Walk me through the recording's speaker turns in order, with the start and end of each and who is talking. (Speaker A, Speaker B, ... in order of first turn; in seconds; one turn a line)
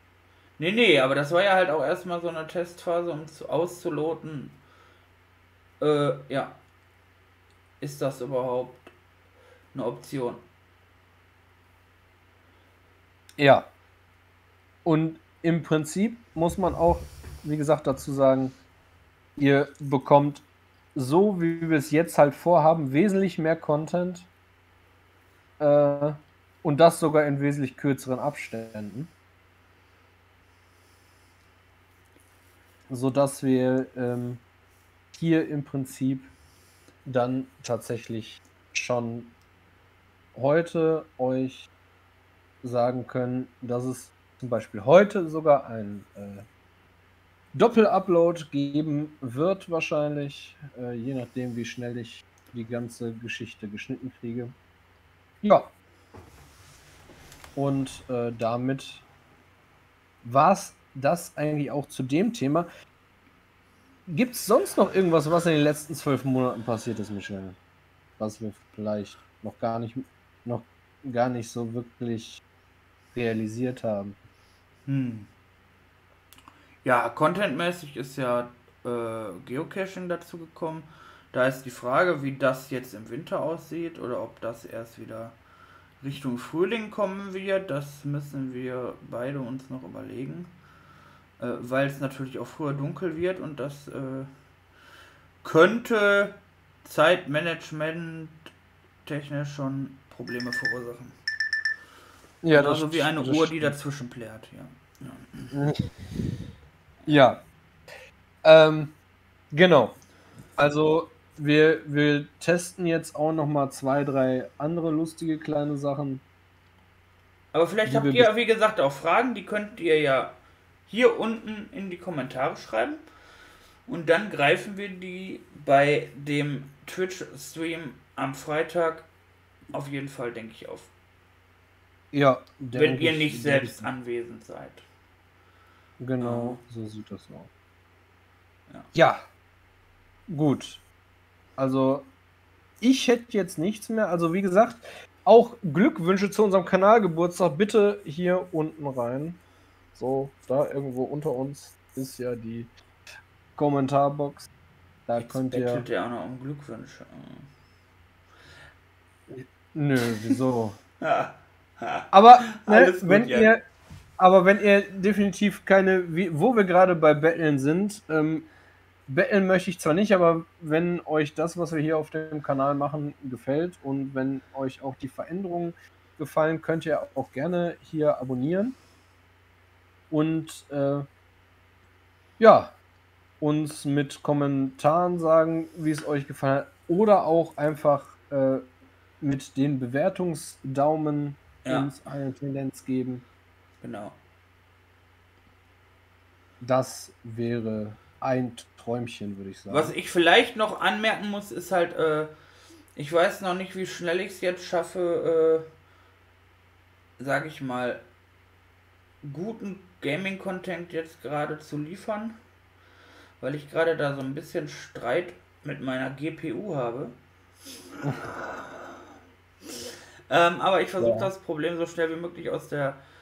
Speaker A: 0.6-4.6
Speaker A: 5.8-6.6
Speaker A: 7.8-8.9
Speaker A: 9.7-10.4
Speaker B: 13.4-13.7
Speaker B: 14.8-18.6
Speaker B: 19.4-24.3
Speaker B: 25.6-29.1
Speaker B: 32.9-34.4
Speaker B: 35.1-36.3
Speaker B: 37.0-39.3
Speaker B: 40.3-41.7
Speaker B: 42.6-46.5
Speaker B: 47.5-54.5
Speaker B: 55.4-55.7
Speaker B: 57.5-59.0
Speaker B: 60.2-62.7
Speaker B: 64.1-67.6
Speaker B: 68.2-72.4
Speaker B: 73.1-74.2
Speaker A: 74.9-75.3
Speaker A: 76.8-85.4
Speaker A: 86.0-90.5
Speaker A: 91.4-94.3
Speaker A: 95.4-98.5
Speaker A: 99.0-101.1
Speaker B: 102.4-103.7
Speaker A: 102.5-105.5
Speaker B: 107.1-107.4
Speaker B: 108.4-109.0
Speaker B: 109.5-110.0
Speaker B: 110.6-116.2
Speaker A: 117.5-123.0
Speaker B: 117.8-118.3
Speaker A: 123.8-129.1
Speaker A: 129.7-130.9
Speaker B: 132.1-133.9
Speaker A: 132.7-134.8
Speaker B: 136.0-137.5
Speaker A: 136.2-136.6
Speaker B: 138.9-139.2
Speaker B: 140.3-140.8
Speaker B: 141.6-142.1
Speaker B: 142.8-149.4
Speaker B: 149.9-152.7
Speaker B: 153.6-154.5
Speaker B: 155.1-155.8
Speaker A: 155.1-157.5
Speaker B: 159.3-160.8
Speaker A: 161.0-162.0
Speaker B: 162.1-163.6
Speaker A: 162.6-163.5
Speaker B: 164.2-168.5
Speaker B: 169.1-178.8
Speaker B: 180.1-181.1
Speaker B: 182.4-182.8
Speaker B: 183.4-188.6
Speaker B: 189.2-193.2
Speaker A: 191.6-191.9
Speaker A: 193.8-194.2
Speaker B: 196.6-199.9
Speaker A: 199.7-202.3
Speaker A: 202.9-205.6
Speaker A: 207.2-208.0
Speaker A: 209.2-212.4
Speaker A: 213.4-217.1
Speaker A: 220.3-223.0
Speaker B: 221.0-221.3